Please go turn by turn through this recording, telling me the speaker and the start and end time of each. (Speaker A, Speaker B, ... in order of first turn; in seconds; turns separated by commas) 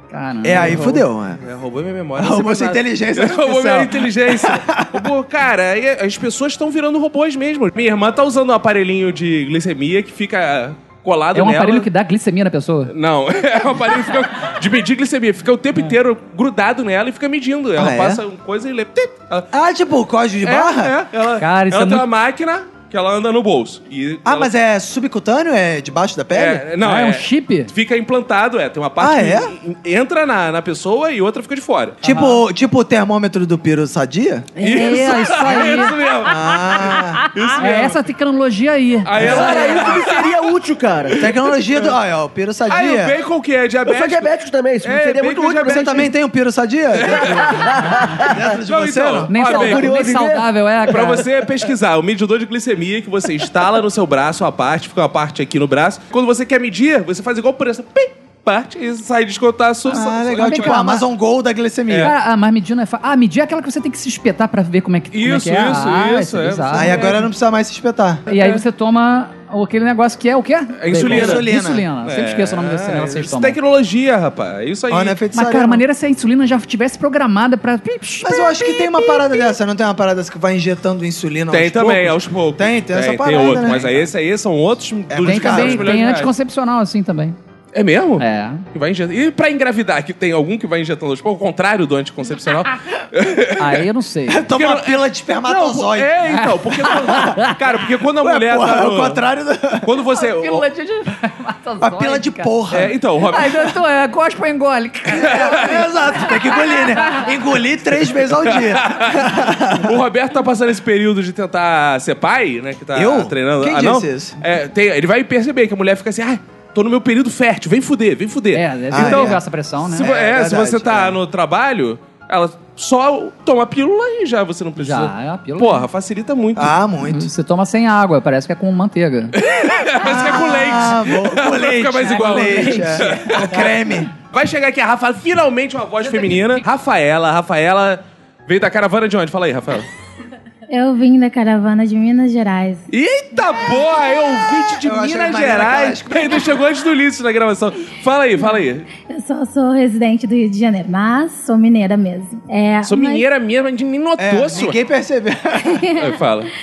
Speaker A: 0.1-0.8, Speaker B: 0.4-1.4, Speaker C: 0.5-11.9, Speaker B: 2.2-5.1, Speaker A: 11.3-12.9, Speaker C: 12.9-19.5, Speaker B: 17.8-18.2, Speaker B: 19.5-20.9, Speaker C: 20.4-24.5, Speaker A: 21.4-22.1, Speaker B: 24.2-26.6, Speaker C: 26.3-32.0, Speaker A: 26.8-27.7, Speaker B: 29.0-29.5, Speaker B: 32.0-34.5, Speaker A: 32.0-32.4, Speaker A: 34.6-36.0, Speaker C: 34.6-38.0, Speaker B: 36.2-37.2, Speaker A: 37.6-40.0, Speaker C: 39.0-40.3, Speaker D: 39.2-41.3, Speaker B: 41.2-43.1, Speaker C: 42.7-46.1, Speaker D: 43.9-46.0, Speaker B: 45.6-49.4, Speaker C: 47.0-47.6, Speaker D: 47.0-48.5, Speaker C: 48.6-49.9, Speaker A: 49.3-51.2, Speaker D: 49.4-50.5, Speaker C: 50.9-60.9, Speaker B: 59.9-62.1, Speaker A: 60.4-61.0, Speaker C: 61.9-62.1, Speaker A: 62.0-67.0, Speaker C: 65.1-67.3, Speaker B: 66.7-68.2, Speaker A: 68.3-73.6, Speaker C: 68.3-68.6, Speaker C: 70.8-71.5, Speaker B: 71.0-71.8, Speaker C: 72.0-75.2, Speaker B: 74.9-75.8, Speaker A: 75.3-78.7, Speaker B: 78.2-84.1, Speaker C: 81.5-86.3, Speaker B: 85.1-86.0, Speaker A: 85.2-87.4, Speaker C: 87.7-93.8, Speaker A: 88.2-88.7, Speaker A: 93.6-94.4, Speaker B: 94.3-96.2, Speaker C: 94.5-99.2, Speaker A: 96.3-97.6, Speaker B: 98.2-99.9, Speaker C: 99.8-100.7, Speaker A: 100.1-102.5, Speaker B: 101.8-103.0, Speaker C: 102.7-103.8, Speaker A: 103.3-105.7, Speaker B: 105.1-110.0, Speaker C: 105.2-105.9, Speaker A: 106.7-107.2, Speaker C: 108.5-109.3, Speaker C: 109.8-119.4, Speaker B: 112.9-114.4, Speaker A: 118.5-120.0, Speaker B: 118.9-121.2, Speaker C: 119.9-126.8, Speaker A: 124.8-125.9, Speaker B: 126.5-127.3, Speaker A: 127.1-129.3, Speaker C: 129.4-139.9, Speaker B: 130.0-134.1, Speaker A: 132.2-133.4, Speaker E: 140.7-142.8, Speaker C: 142.9-148.9, Speaker B: 144.8-146.4, Speaker E: 149.1-153.3, Speaker C: 152.8-154.8, Speaker B: 154.2-155.8, Speaker E: 155.7-156.2, Speaker C: 156.0-156.5